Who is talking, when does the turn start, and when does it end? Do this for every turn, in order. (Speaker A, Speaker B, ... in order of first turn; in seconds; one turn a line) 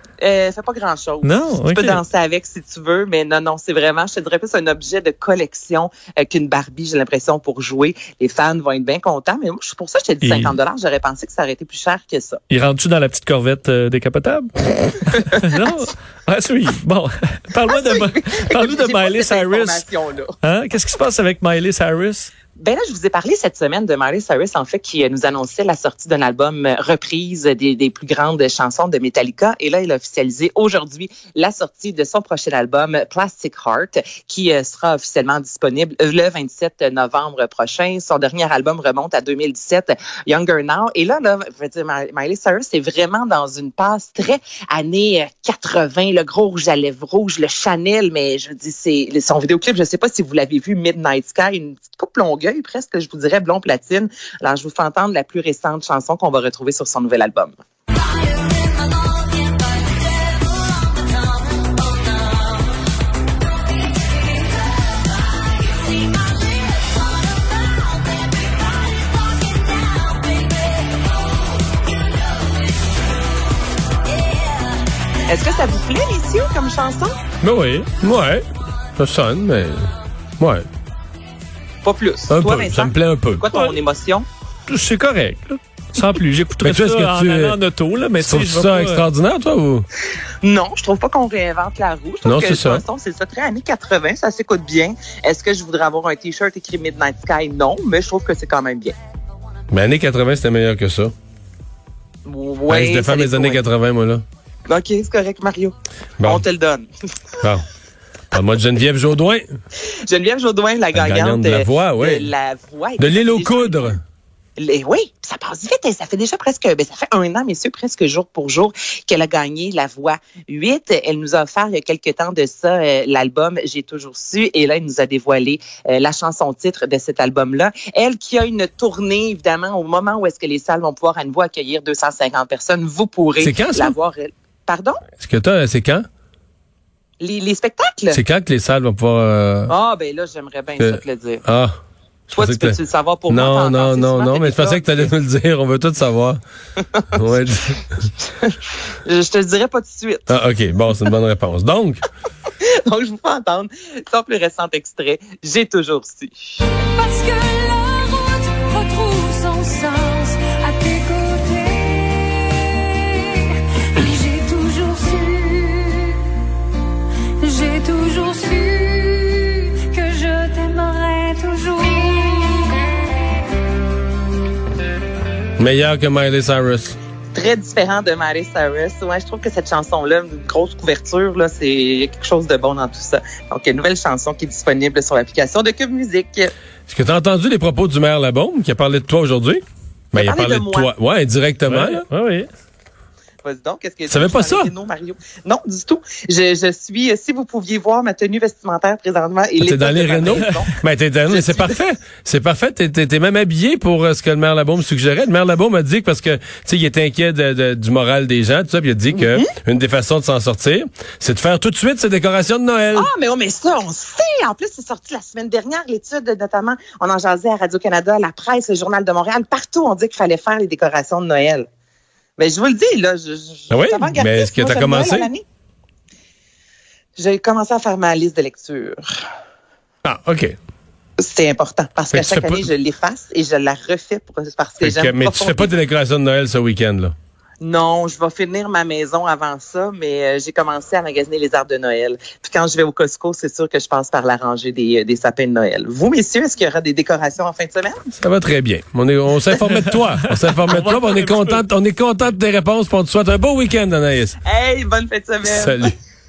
Speaker A: 0.2-12.4
Speaker B: 1.2-2.0
Speaker B: 10.2-10.6
Speaker B: 12.5-19.8
Speaker A: 17.7-20.4
Speaker B: 20.4-22.3
Speaker A: 22.6-57.6
Speaker A: 75.3-77.2
Speaker B: 77.4-77.9
Speaker C: 78.0-78.5
Speaker C: 79.0-80.7
Speaker A: 81.8-84.3
Speaker C: 82.3-83.5
Speaker B: 84.7-89.0
Speaker C: 86.6-87.6
Speaker C: 88.2-89.9
Speaker A: 90.4-99.0
Speaker C: 92.2-92.8
Speaker C: 99.7-101.1
Speaker A: 102.2-103.6
Speaker C: 102.7-104.2
Speaker A: 104.7-106.9
Speaker C: 108.3-109.5
Speaker A: 109.8-114.0
Speaker C: 110.9-112.3
Speaker C: 113.0-114.0
Speaker A: 114.6-135.0
Speaker C: 133.4-133.9
Speaker C: 135.2-136.1
Speaker A: 137.2-138.2
Speaker C: 138.1-139.7
Speaker A: 139.7-141.4
Speaker C: 140.8-141.8
Speaker A: 142.3-145.1
Speaker C: 142.3-142.8
Speaker C: 143.3-146.4
Speaker A: 146.8-147.2
Speaker C: 147.1-147.8
Speaker A: 148.2-150.3
Speaker C: 150.3-152.0
Speaker A: 152.6-156.7
Speaker D: 156.9-166.3
Speaker D: 167.4-172.8
Speaker C: 175.6-177.0
Speaker A: 177.3-186.5
Speaker C: 186.9-192.1
Speaker A: 190.2-190.9
Speaker B: 191.7-192.5
Speaker A: 193.4-200.7
Speaker C: 194.1-194.7
Speaker C: 199.6-213.1
Speaker A: 201.3-201.8
Speaker A: 209.1-209.5
Speaker A: 212.9-221.7
Speaker A: 222.4-225.4
Speaker C: 223.7-225.3
Speaker A: 227.2-229.1
Speaker C: 230.0-230.6
Speaker A: 231.2-235.7
Speaker C: 232.1-232.7
Speaker C: 234.8-237.1
Speaker A: 237.6-248.1
Speaker C: 248.2-254.4
Speaker B: 249.7-251.6
Speaker A: 254.4-255.9
Speaker C: 255.4-255.9